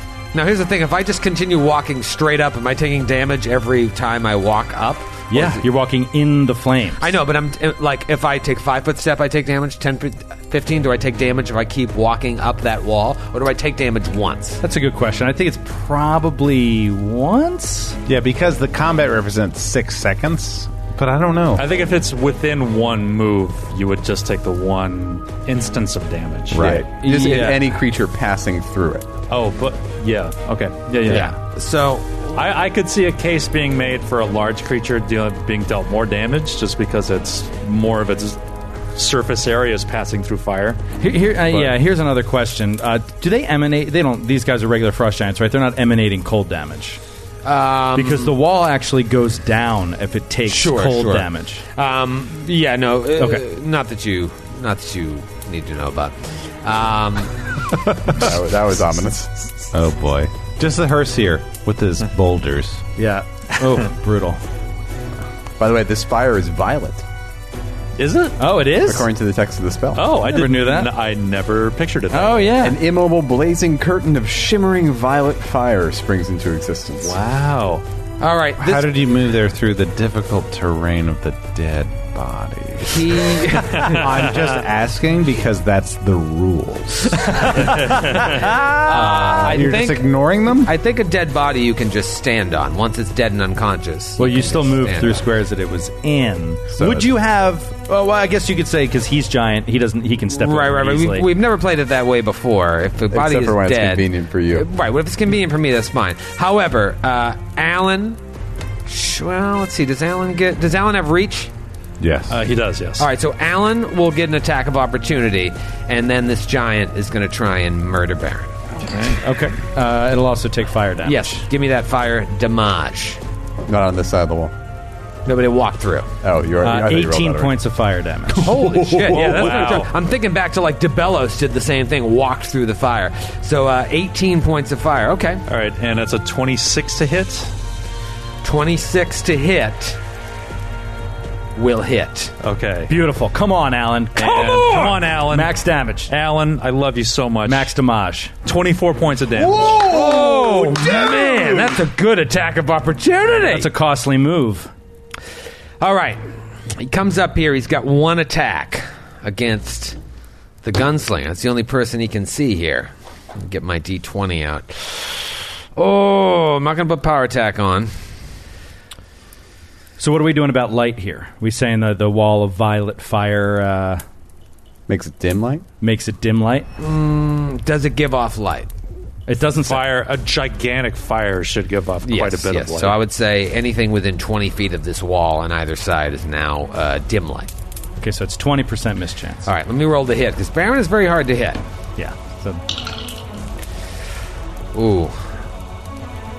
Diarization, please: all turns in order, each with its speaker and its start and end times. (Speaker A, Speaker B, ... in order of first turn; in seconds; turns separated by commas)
Speaker A: 0.3-5.6, Speaker B: 5.3-7.1, Speaker A: 7.0-14.6, Speaker B: 14.6-18.0, Speaker C: 18.1-21.6, Speaker D: 21.6-27.6, Speaker C: 26.5-26.9, Speaker E: 26.5-29.1, Speaker B: 27.1-27.6, Speaker D: 29.3-31.3, Speaker A: 31.1-32.3, Speaker D: 32.3-38.4, Speaker D: 38.9-40.8, Speaker B: 41.0-47.0, Speaker A: 47.4-48.3, Speaker B: 47.9-51.6, Speaker A: 50.5-57.4, Speaker E: 58.1-59.3, Speaker C: 59.7-62.8, Speaker B: 63.0-64.4, Speaker E: 65.6-67.0, Speaker D: 68.0-68.4, Speaker B: 68.4-69.1, Speaker E: 68.8-70.0, Speaker D: 69.9-72.5, Speaker B: 70.2-70.9, Speaker B: 72.1-72.8, Speaker E: 72.6-77.2, Speaker D: 77.0-77.8, Speaker A: 78.2-78.9, Speaker C: 78.6-90.7, Speaker A: 82.8-84.1, Speaker B: 87.4-89.3, Speaker A: 88.8-90.1, Speaker A: 90.6-95.3, Speaker B: 94.2-101.3, Speaker E: 96.8-97.0, Speaker A: 100.3-108.2, Speaker E: 103.1-104.7, Speaker A: 108.9-111.5, Speaker C: 112.0-112.4, Speaker D: 112.3-113.1, Speaker A: 113.0-118.5, Speaker D: 118.8-119.2, Speaker B: 119.2-121.4, Speaker A: 121.0-123.2, Speaker E: 123.7-124.5, Speaker A: 125.3-126.1, Speaker E: 126.2-127.6, Speaker B: 126.6-129.5, Speaker A: 128.3-135.4, Speaker D: 129.1-129.9, Speaker D: 135.5-137.5, Speaker A: 138.4-140.0, Speaker A: 141.6-142.3, Speaker D: 142.4-142.9, Speaker B: 142.9-146.1, Speaker D: 144.2-145.5, Speaker A: 144.4-144.9, Speaker D: 146.1-147.7, Speaker B: 147.4-148.3, Speaker D: 148.4-149.9, Speaker C: 149.5-151.4, Speaker A: 149.7-153.7, Speaker B: 153.4-154.7, Speaker A: 155.8-156.2, Speaker A: 156.8-160.0, Speaker A: 160.6-167.9, Speaker B: 170.0-174.0, Speaker E: 174.9-175.6, Speaker B: 175.8-176.7, Speaker A: 176.8-178.7, Speaker B: 179.3-179.8, Speaker D: 179.6-183.0, Speaker A: 182.0-187.5, Speaker B: 188.0-189.5, Speaker A: 189.4-191.6, Speaker B: 192.0-192.6, Speaker A: 194.7-195.2